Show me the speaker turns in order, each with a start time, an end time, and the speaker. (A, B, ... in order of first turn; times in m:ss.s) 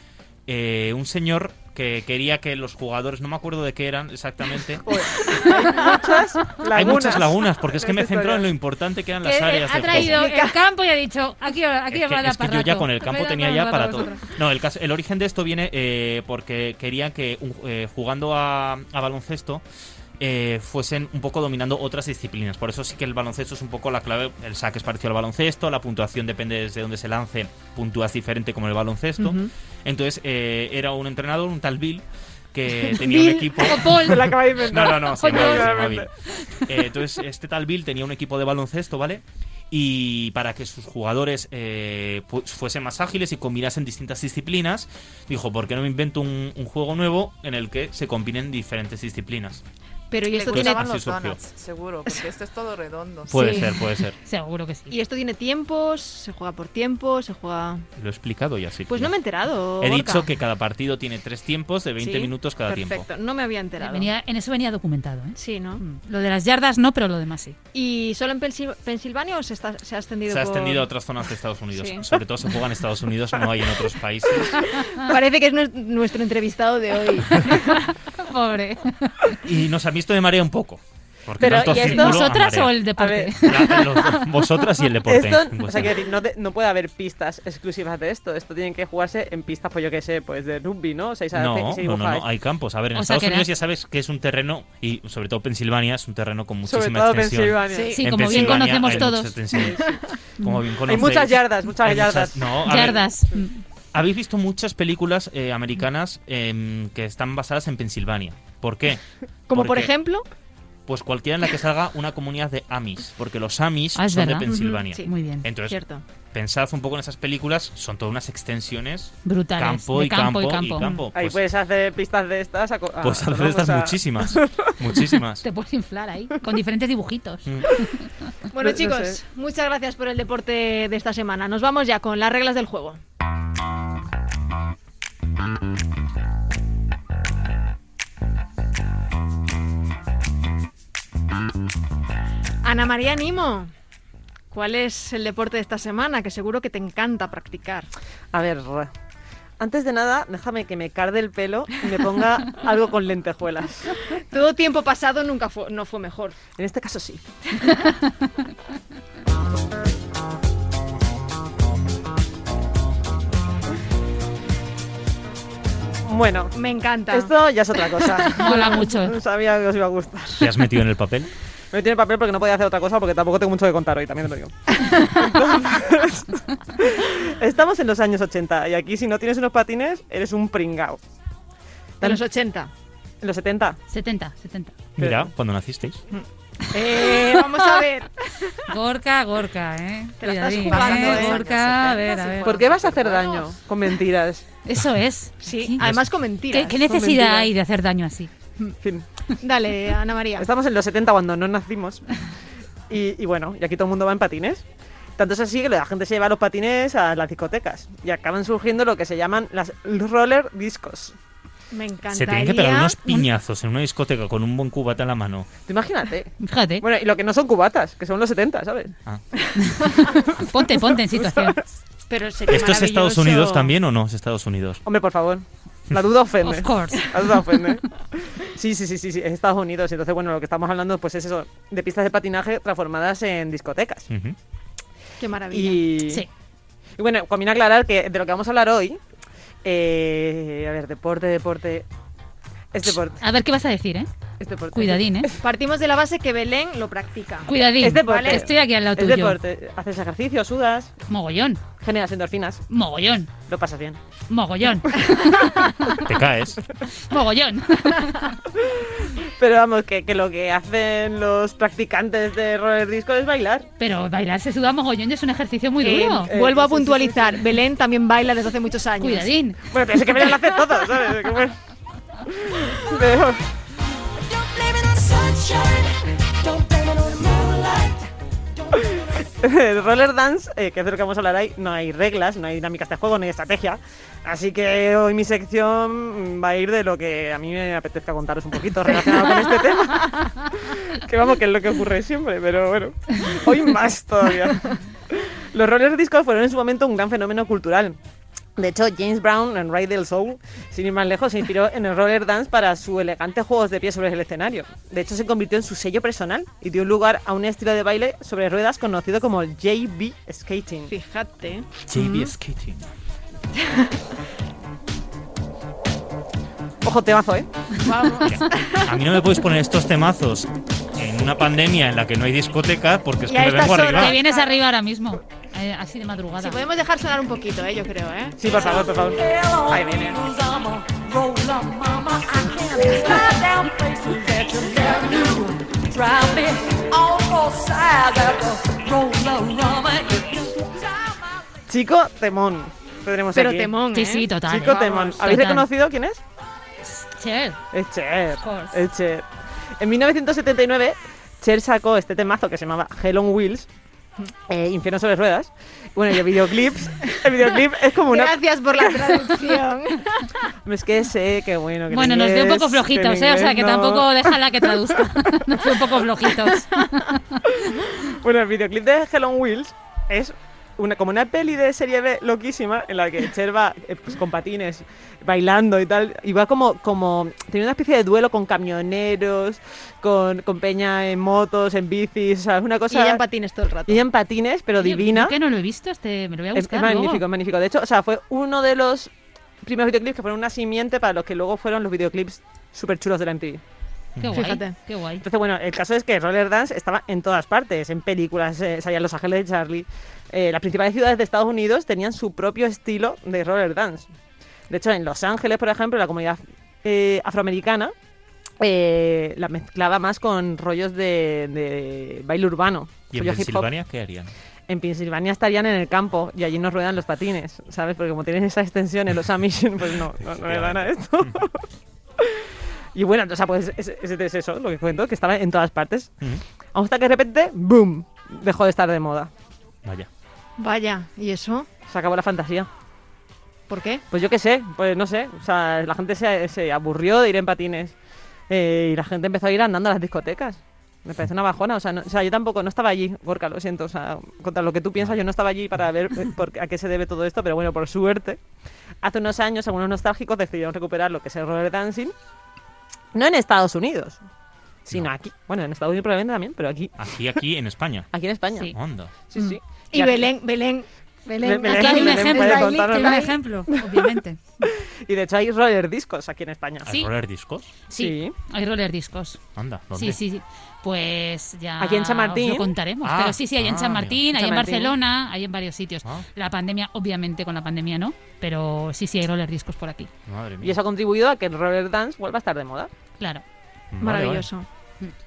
0:00.5-0:04.8 A
0:04.8-0:08.5 B
0:05.4-0:06.1 C
0:06.7-0:10.2 A
0:09.2-0:14.2 D
0:09.8-0:10.6 C
0:11.9-0:19.6 A
0:20.2-0:36.1 A
0:29.2-0:29.5 C
0:33.0-0:33.7 C
0:33.5-0:36.0 D
0:34.0-0:36.1 B
0:36.6-0:49.6 A
0:50.1-0:50.9 C
0:50.3-0:50.8 D
0:50.5-0:51.4 A
0:50.7-0:53.6 E
0:53.3-0:54.2 A
0:53.3-0:53.7 C
0:53.4-0:53.6 D
0:54.2-0:55.0 D
0:54.9-0:57.8 C
0:58.0-0:59.1 A
0:58.9-1:00.3 C
0:59.8-1:03.0 A
1:02.0-1:04.1 C
1:03.8-1:07.6 D
1:05.4-1:05.8 C
1:07.7-1:10.9 C
1:10.3-1:14.8 A
1:11.7-1:12.0 C
1:14.9-1:17.9 C
1:18.2-1:19.4 D
1:19.4-1:22.8 A
1:21.4-1:22.3 B
1:21.4-1:24.2 D
1:23.0-1:23.8 B
1:23.4-1:25.9 A
1:25.0-1:32.2 B
1:31.3-1:43.0 A
1:32.9-1:33.5 D
1:36.6-1:38.0 B
1:37.7-1:38.9 C
1:37.9-1:39.4 D
1:38.7-1:40.0 B
1:40.8-1:43.1 B
1:42.6-1:43.6 D
1:43.9-1:49.9 A
1:49.5-1:50.2 C
1:50.9-1:55.8 A
1:53.9-1:55.4 D
1:54.5-1:55.1 C
1:55.6-1:56.0 C
1:56.3-2:01.4 A
1:59.2-2:00.9 D
2:01.1-2:04.7 B
2:03.0-2:05.4 A
2:05.4-2:08.1 D
2:07.4-2:07.7 A
2:08.5-2:13.0 C
2:08.6-2:09.2 B
2:22.6-2:23.7 C
2:24.5-2:27.9 C
2:28.3-2:28.9 B
2:29.6-2:33.9 B
2:34.2-2:36.4 C
2:36.6-2:37.2 B
2:46.0-2:46.5 B
2:46.5-2:47.3 C
2:47.1-2:50.5 B
2:48.0-2:48.8 C
2:48.4-2:49.2 D
2:50.4-2:51.3 A
2:51.7-3:01.0 B
2:54.8-2:55.1 C
3:02.0-3:02.7 C
3:03.2-3:03.8 B
3:03.9-3:04.7 D
3:05.0-3:06.0 A
3:05.0-3:05.3 B
3:06.1-3:08.6 C
3:06.8-3:07.5 B
3:06.8-3:07.8 D
3:08.6-3:12.6 D
3:10.2-3:13.5 C
3:10.6-3:14.4 B
3:14.6-3:15.8 D
3:15.4-3:16.8 C
3:15.8-3:16.1 A
3:16.5-3:18.3 D
3:16.8-3:17.5 B
3:19.4-3:20.5 C
3:20.4-3:22.0 B
3:22.9-3:24.6 B
3:25.2-3:31.1 B
3:31.7-3:33.2 C
3:32.1-3:35.5 A
3:35.6-3:38.9 B
3:36.4-3:36.8 D
3:39.6-3:41.6 D
3:39.8-3:40.1 C
3:42.1-3:43.7 C
3:42.5-3:44.8 A
3:44.8-3:54.1 B
3:46.4-3:47.5 D
3:54.1-3:54.4 A
3:55.2-3:55.9 C
3:55.5-3:56.2 B
3:57.0-3:59.0 B
3:59.6-4:01.8 B
4:02.7-4:03.2 B
4:03.2-4:04.1 D
4:04.4-4:05.4 B
4:04.7-4:05.3 D
4:05.4-4:08.4 C
4:07.4-4:09.4 D
4:07.8-4:10.9 B
4:11.1-4:11.6 D
4:11.8-4:12.6 B
4:12.7-4:13.3 D
4:13.4-4:14.0 B
4:14.3-4:16.1 D
4:16.0-4:16.6 A
4:16.8-4:18.4 D
4:18.6-4:23.7 B
4:23.8-4:26.3 D
4:25.8-4:29.3 C
4:26.3-4:27.4 B
4:29.0-4:29.6 D
4:29.7-4:31.6 B
4:32.2-4:33.4 B
4:34.8-4:35.7 B
4:36.6-4:37.9 B
4:38.8-4:58.0 B
4:58.6-5:10.9 B
5:10.9-5:12.3 C
5:11.9-5:12.9 A
5:13.5-5:14.0 C
5:16.8-5:17.5 B
5:17.8-5:18.9 C
5:18.2-5:24.2 A
5:23.3-5:24.5 C
5:24.0-5:26.6 D
5:26.4-5:28.6 C
5:28.4-5:30.9 B
5:32.2-5:33.5 C
5:36.1-5:36.5 B
5:37.4-5:40.2 B
5:41.7-5:43.7 B
5:43.3-5:45.0 C
5:43.9-5:45.7 D
5:44.5-5:46.2 B
5:46.8-5:47.6 D
5:47.7-5:49.2 B
5:48.4-5:48.8 D
5:49.8-5:53.7 B
5:54.5-5:59.2 B
5:58.0-6:00.3 C
6:00.6-6:04.3 B
6:01.9-6:07.5 D
6:07.9-6:23.2 B
6:22.9-6:24.0 C
6:23.9-6:25.3 B
6:24.8-6:27.2 D
6:26.5-6:29.1 B
6:29.6-6:33.6 B
6:34.2-6:35.2 D
6:34.3-6:34.7 C
6:35.2-6:44.1 B
6:44.7-6:47.9 B
6:48.6-6:53.7 B
6:53.1-6:54.3 A
6:54.7-7:01.6 B
7:00.4-7:01.4 A
7:02.2-7:06.2 B
7:06.7-7:09.3 B
7:10.6-7:11.7 C
7:11.9-7:12.7 B
7:13.7-7:14.0 C
7:14.1-7:17.9 B
7:18.5-7:28.4 B
7:29.0-7:32.1 B
7:33.1-7:34.2 B
7:34.8-7:36.9 B
7:37.0-7:38.1 A
7:38.1-7:38.7 B
7:38.7-7:39.1 A
7:39.3-7:40.3 B
7:39.4-7:43.3 C
7:41.4-7:43.8 B
7:41.7-7:44.4 D
7:44.7-7:47.0 B
7:46.8-7:47.8 A
7:47.9-7:49.4 D
7:47.9-7:48.3 B
7:49.6-7:50.2 A
7:49.9-8:00.1 D
7:51.8-7:52.7 B
7:53.0-7:54.2 A
7:54.3-7:54.9 B
8:00.3-8:00.8 A
8:00.6-8:02.9 B
8:03.9-8:04.5 A
8:04.0-8:04.6 C